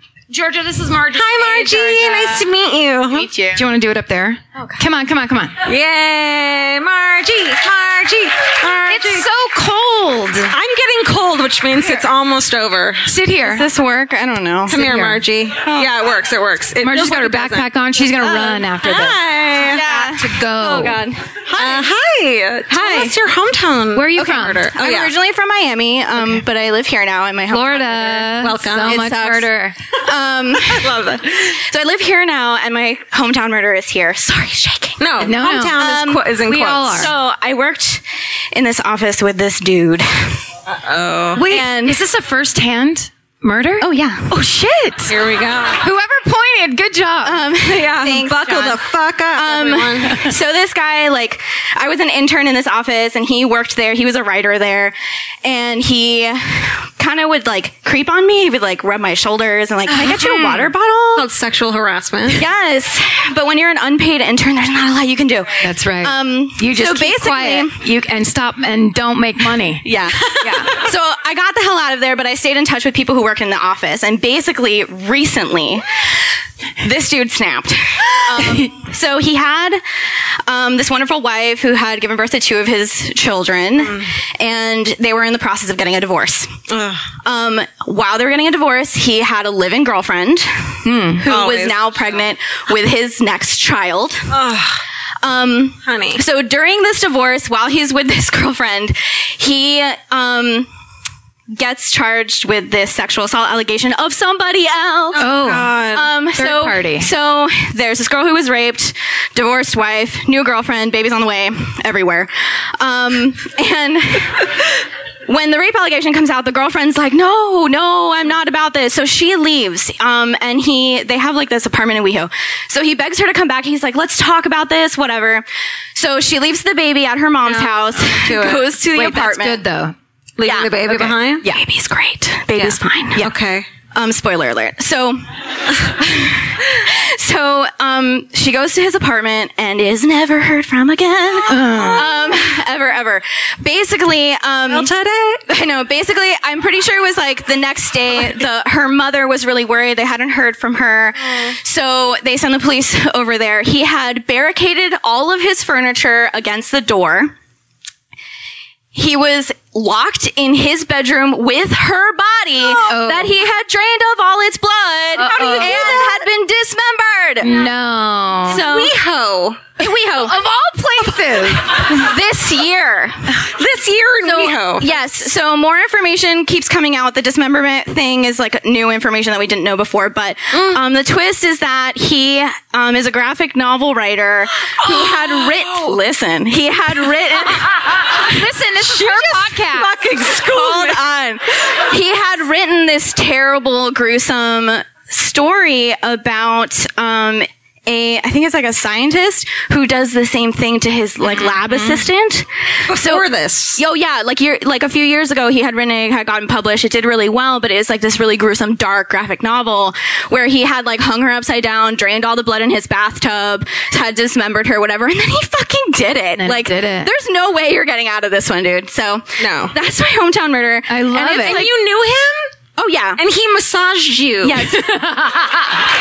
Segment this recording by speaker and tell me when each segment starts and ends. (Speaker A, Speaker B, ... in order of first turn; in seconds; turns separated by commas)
Speaker A: 0.3-2.5, Speaker B: 1.1-3.3, Speaker C: 3.1-3.6, Speaker A: 3.5-5.6, Speaker B: 5.6-9.3, Speaker A: 8.9-10.5, Speaker B: 10.5-13.1, Speaker A: 13.1-13.7, Speaker C: 13.4-14.9, Speaker B: 14.7-17.6, Speaker A: 14.7-15.2, Speaker C: 15.6-15.9, Speaker A: 16.8-19.2, Speaker C: 18.2-18.6, Speaker B: 18.8-19.8, Speaker C: 19.6-21.9, Speaker A: 19.8-21.0, Speaker B: 21.5-25.1, Speaker C: 22.7-23.1, Speaker A: 23.9-24.7, Speaker C: 24.7-28.3, Speaker A: 27.5-29.8, Speaker B: 28.3-29.1, Speaker C: 28.9-35.0, Speaker B: 30.7-31.6, Speaker B: 35.0-37.1, Speaker A: 35.2-37.1, Speaker C: 35.8-36.2, Speaker C: 37.0-40.4, Speaker B: 40.7-41.4, Speaker A: 41.3-45.1, Speaker C: 41.5-42.0, Speaker C: 43.8-44.3, Speaker B: 45.1-45.8, Speaker A: 45.8-47.5, Speaker C: 47.2-48.8, Speaker B: 47.6-50.3, Speaker C: 49.3-61.3, Speaker A: 50.0-50.3, Speaker A: 59.9-60.7, Speaker B: 61.1-62.5, Speaker C: 62.3-67.8, Speaker A: 65.6-70.7, Speaker C: 69.8-75.8, Speaker B: 70.4-70.7, Speaker C: 76.8-79.8, Speaker A: 78.4-78.7, Speaker C: 80.4-86.5, Speaker B: 86.7-87.1, Speaker C: 87.2-94.3, Speaker A: 90.8-91.3, Speaker B: 91.2-92.3, Speaker B: 94.3-94.8, Speaker C: 95.2-100.7, Speaker B: 95.8-96.2, Speaker C: 101.5-105.2, Speaker A: 105.2-105.8, Speaker B: 105.2-106.1, Speaker C: 105.9-129.6, Speaker A: 106.3-107.1, Speaker B: 127.4-128.7, Speaker A: 128.9-129.9, Speaker B: 130.4-131.4, Speaker C: 130.4-130.8, Speaker A: 130.8-131.5, Speaker C: 131.4-133.3, Speaker B: 132.6-133.7, Speaker C: 133.9-144.9, Speaker A: 141.5-142.1, Speaker B: 141.7-142.1, Speaker B: 144.7-145.4, Speaker C: 145.4-157.3, Speaker C: 158.9-167.6, Speaker B: 162.6-163.0, Speaker A: 162.9-163.4, Speaker A: 165.2-166.0, Speaker B: 165.3-166.2, Speaker A: 167.4-168.6, Speaker C: 168.5-168.9, Speaker B: 168.5-169.8, Speaker C: 169.8-170.4, Speaker A: 169.8-171.9, Speaker C: 171.6-173.4, Speaker B: 173.4-174.9, Speaker C: 174.2-187.8, Speaker B: 180.5-180.8, Speaker B: 184.8-186.0, Speaker A: 188.1-189.9, Speaker B: 188.8-191.0, Speaker C: 190.2-221.7, Speaker A: 201.2-202.0, Speaker B: 202.9-203.8, Speaker A: 216.4-217.1, Speaker B: 219.4-219.8, Speaker A: 220.9-221.7, Speaker B: 221.2-222.6, Speaker C: 222.8-223.2, Speaker B: 223.2-224.7, Speaker C: 224.4-224.9, Speaker A: 224.5-225.8